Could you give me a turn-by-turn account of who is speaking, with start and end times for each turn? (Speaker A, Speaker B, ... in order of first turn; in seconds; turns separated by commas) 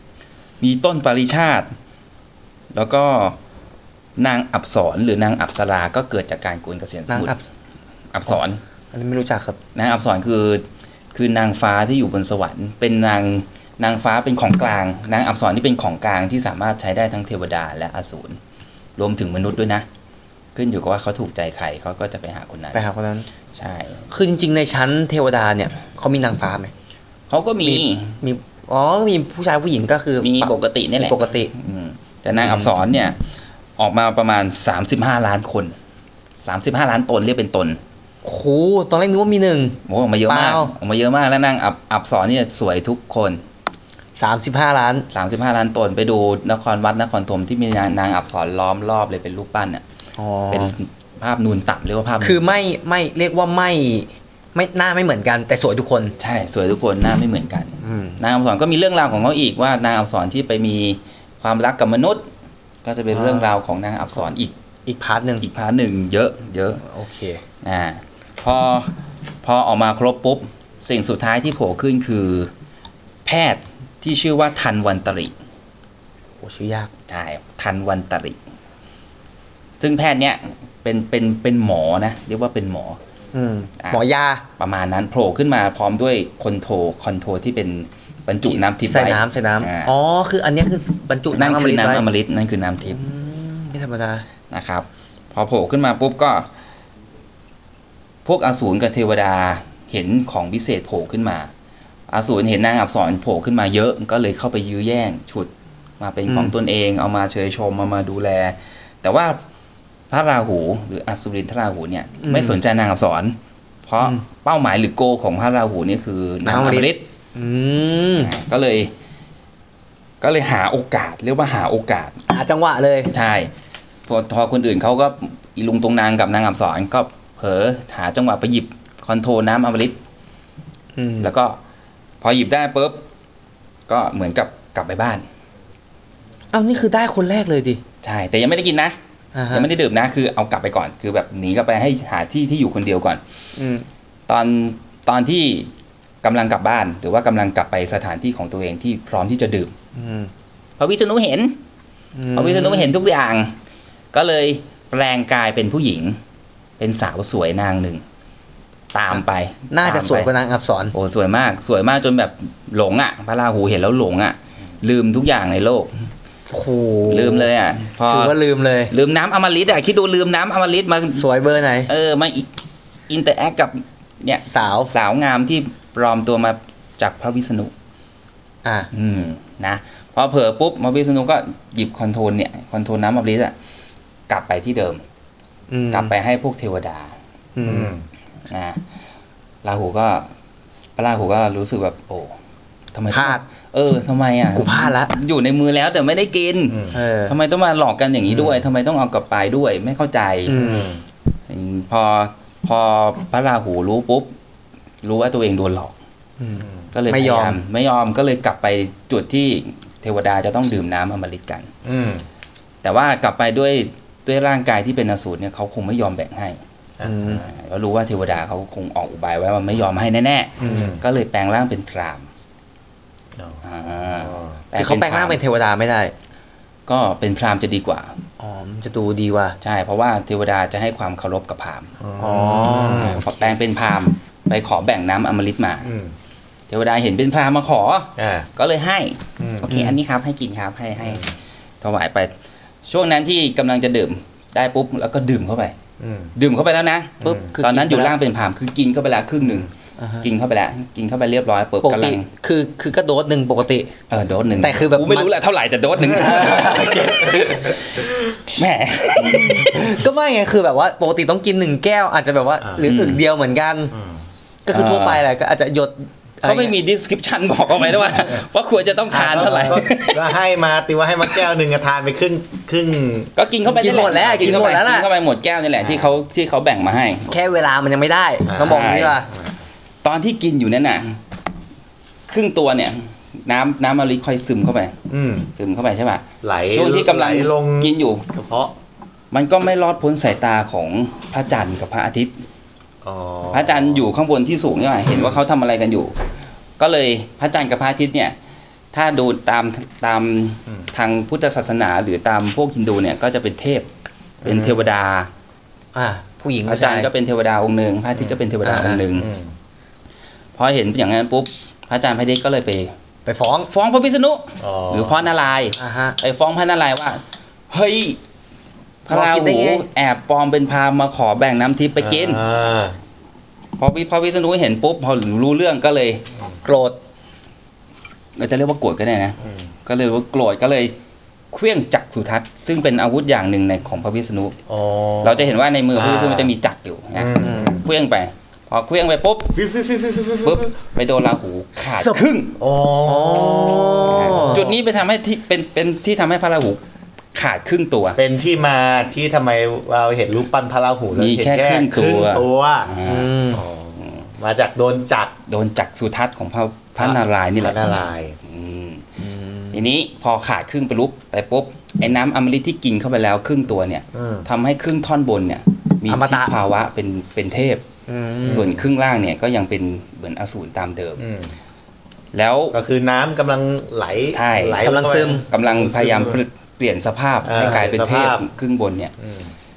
Speaker A: 0.6-1.7, Speaker A: 2.7-3.4, Speaker A: 4.2-7.3, Speaker B: 7.1-7.4, Speaker A: 8.1-8.6, Speaker B: 8.9-9.6, Speaker A: 9.8-18.4, Speaker A: 19.0-19.9, Speaker A: 20.6-22.8, Speaker B: 22.7-23.3, Speaker A: 23.6-24.1, Speaker B: 24.1-26.7, Speaker A: 27.3-28.2, Speaker B: 27.6-31.5, Speaker A: 30.2-33.2, Speaker B: 32.4-32.7, Speaker A: 33.8-35.8, Speaker A: 36.4-37.8, Speaker B: 38.2-40.7, Speaker A: 39.9-43.4, Speaker B: 44.2-45.1, Speaker A: 45.1-49.8, Speaker B: 50.2-50.8, Speaker A: 50.5-52.4, Speaker B: 52.2-56.1, Speaker A: 56.2-62.3, Speaker B: 57.8-58.2, Speaker A: 62.8-64.5, Speaker B: 63.1-63.5, Speaker B: 64.9-65.5, Speaker A: 65.4-66.8, Speaker B: 66.8-67.4, Speaker A: 67.6-72.5, Speaker A: 73.2-75.3, Speaker B: 76.4-76.9, Speaker A: 77.1-78.4, Speaker A: 79.8-83.0, Speaker B: 83.3-84.4, Speaker A: 84.6-89.9, Speaker B: 88.4-92.0, Speaker A: 91.3-93.0, Speaker B: 92.9-94.3, Speaker A: 94.5-96.5, Speaker A: 98.2-101.5, Speaker A: 102.1-109.4, Speaker B: 106.3-106.5, Speaker A: 110.1-117.0, Speaker B: 112.2-112.6, Speaker B: 116.5-118.3, Speaker A: 118.2-118.9, Speaker A: 120.2-122.2, Speaker B: 122.3-123.1, Speaker A: 123.1-123.5, Speaker A: 124.1-130.0, Speaker B: 131.0-131.3, Speaker A: 131.2-131.6, Speaker A: 132.2-133.1, Speaker A: 133.9-135.3, Speaker B: 136.5-137.8, Speaker A: 138.0-139.0, Speaker B: 139.3-139.7, Speaker A: 139.5-143.2, Speaker B: 143.6-143.9, Speaker A: 144.3-145.7, Speaker A: 146.2-149.7, Speaker B: 149.9-150.3, Speaker A: 150.8-151.6, Speaker B: 152.2-152.9, Speaker A: 152.3-153.6, Speaker A: 154.1-156.2, Speaker A: 156.8-158.0, Speaker A: 158.9-160.3, Speaker B: 159.1-160.9, Speaker A: 160.9-166.1, Speaker B: 166.5-167.5, Speaker A: 167.1-168.4, Speaker B: 168.1-168.9, Speaker A: 168.9-171.3, Speaker B: 171.1-171.9, Speaker A: 171.9-172.5, Speaker A: 173.1-177.7, Speaker B: 174.5-174.9, Speaker A: 178.9-183.6, Speaker A: 184.3-185.0, Speaker B: 185.7-186.1, Speaker A: 185.9-187.2, Speaker B: 187.6-187.9, Speaker C: 187.7-188.1, Speaker A: 188.5-188.8, Speaker A: 189.6-190.3, Speaker A: 191.0-192.3, Speaker A: 192.9-200.7, Speaker B: 193.1-193.4, Speaker B: 194.6-195.1, Speaker C: 196.7-197.0, Speaker B: 196.9-197.3, Speaker B: 200.5-200.9, Speaker C: 200.6-201.0, Speaker A: 201.5-204.3, Speaker A: 205.0-205.9, Speaker B: 206.4-207.6, Speaker A: 206.9-211.7, Speaker C: 211.8-212.3, Speaker A: 212.8-216.6, Speaker C: 217.0-217.4, Speaker B: 217.0-217.5, Speaker A: 217.4-222.3, Speaker C: 220.6-221.0, Speaker B: 220.6-220.9, Speaker C: 223.4-224.6, Speaker A: 223.6-225.4, Speaker B: 224.8-226.1, Speaker A: 226.9-228.2, Speaker B: 228.4-229.6, Speaker A: 229.6-231.9, Speaker C: 232.0-233.2, Speaker B: 232.2-233.5, Speaker A: 232.7-235.9, Speaker C: 235.8-236.2, Speaker A: 236.7-242.3, Speaker C: 238.2-238.5, Speaker C: 239.4-239.7, Speaker B: 239.7-240.0, Speaker C: 241.0-241.3, Speaker A: 242.8-245.8, Speaker C: 246.0-246.3, Speaker A: 246.4-249.7, Speaker B: 247.2-248.2, Speaker B: 250.0-250.2, Speaker A: 250.2-252.3, Speaker B: 251.8-253.9, Speaker A: 254.1-260.0, Speaker B: 254.6-255.3, Speaker B: 256.0-257.5, Speaker B: 259.2-263.9, Speaker A: 262.8-263.2, Speaker C: 263.9-264.2, Speaker B: 264.7-266.7, Speaker A: 264.7-265.2, Speaker A: 266.4-270.4, Speaker B: 269.1-269.9, Speaker C: 269.1-273.3, Speaker A: 273.4-277.3, Speaker B: 273.7-275.1, Speaker C: 273.9-274.7, Speaker B: 277.3-279.3, Speaker C: 278.5-278.9, Speaker A: 278.6-279.2, Speaker A: 280.0-281.2, Speaker A: 282.3-285.0, Speaker C: 285.1-285.5, Speaker A: 285.6-288.2, Speaker C: 286.4-288.7, Speaker A: 289.3-292.4, Speaker C: 293.0-294.1, Speaker A: 293.5-296.1, Speaker A: 296.8-298.4, Speaker A: 298.9-303.9, Speaker C: 304.4-304.7, Speaker A: 304.4-305.3, Speaker B: 305.9-307.1, Speaker A: 306.7-309.3, Speaker B: 308.6-309.0, Speaker C: 309.1-309.6, Speaker A: 310.6-312.9, Speaker B: 313.3-313.7, Speaker A: 313.7-318.2, Speaker C: 314.6-315.3, Speaker B: 315.8-316.2, Speaker A: 319.1-322.4, Speaker B: 319.1-319.9, Speaker C: 322.0-323.0, Speaker A: 323.8-326.2, Speaker B: 326.6-327.0, Speaker A: 328.4-330.9, Speaker C: 329.4-329.7, Speaker A: 331.5-334.6, Speaker C: 334.7-336.5, Speaker A: 335.2-339.6, Speaker C: 337.1-337.9, Speaker B: 337.4-337.7, Speaker C: 339.6-340.7, Speaker A: 340.4-342.6, Speaker B: 341.8-342.2, Speaker C: 342.6-344.7, Speaker B: 343.1-344.7, Speaker A: 344.1-346.8, Speaker A: 347.3-348.2, Speaker C: 348.2-353.0, Speaker A: 351.1-353.3, Speaker B: 353.1-353.6, Speaker C: 353.5-355.4, Speaker A: 355.5-367.9, Speaker C: 357.0-358.4, Speaker B: 359.2-359.8, Speaker C: 364.1-364.5, Speaker B: 366.1-366.5, Speaker B: 368.1-368.7, Speaker A: 368.4-371.2, Speaker C: 368.5-368.7, Speaker C: 371.2-371.5, Speaker A: 372.3-372.8, Speaker C: 372.7-376.4, Speaker A: 374.3-374.9, Speaker B: 374.6-375.4, Speaker A: 375.5-379.1, Speaker C: 377.4-378.5, Speaker C: 379.2-379.5